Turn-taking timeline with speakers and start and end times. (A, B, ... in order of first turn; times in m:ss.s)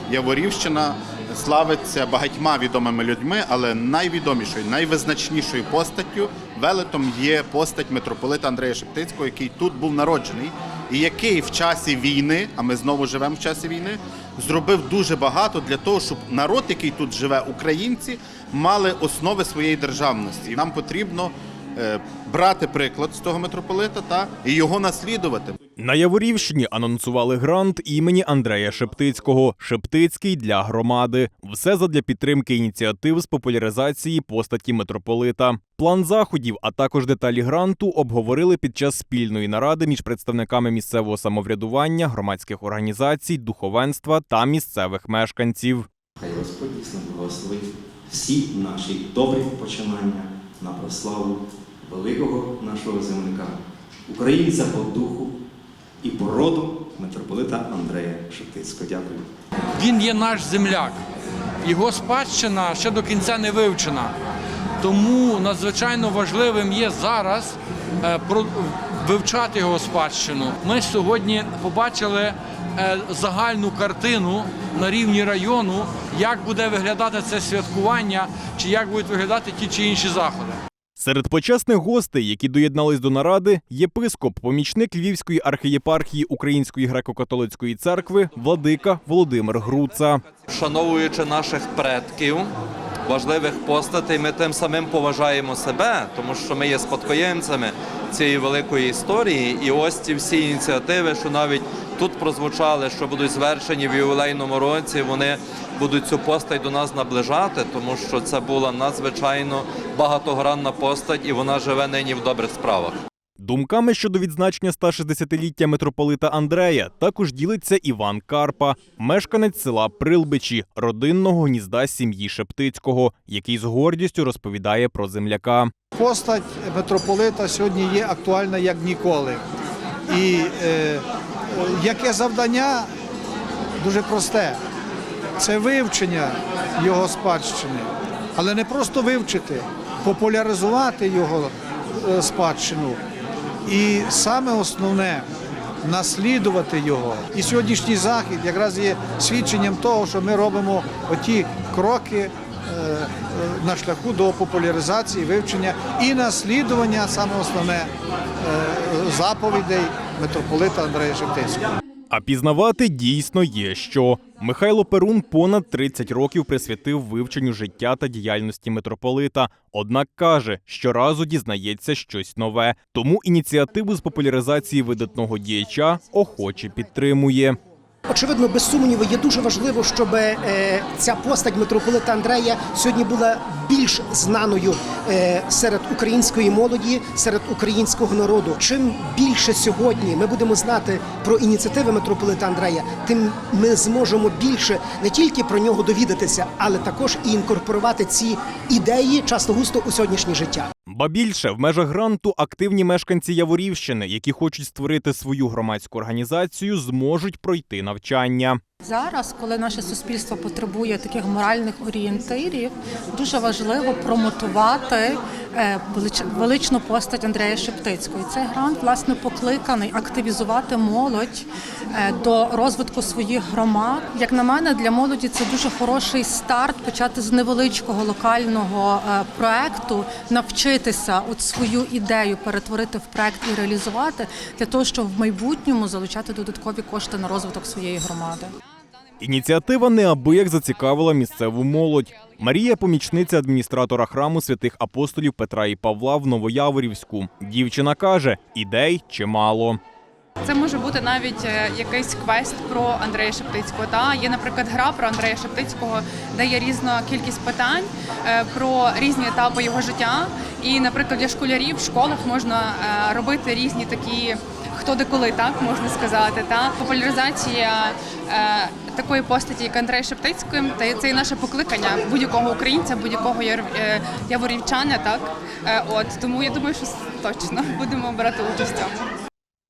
0:00.1-0:25.6 A
0:25.8-0:45.8 B
0:46.2-0:53.6 C
0:54.1-0:55.3 C
0:56.0-0:59.2 C
0:59.7-1:01.0 D
1:01.6-1:04.2 D
1:04.8-1:20.6 D
1:21.0-1:30.2 B
1:30.5-1:32.5 E
1:33.1-1:53.0 E
1:53.4-2:05.7 B
2:06.0-2:09.4 F
2:10.1-2:12.9 F
2:13.8-2:14.6 F
2:15.4-2:23.0 F
2:23.7-2:25.2 F
2:25.8-2:41.7 F
2:42.1-2:57.6 B
2:58.1-3:20.7 G
3:20.9-3:28.6 B
3:28.8-3:58.5 H
3:59.2-4:09.8 B
4:10.4-4:39.0 I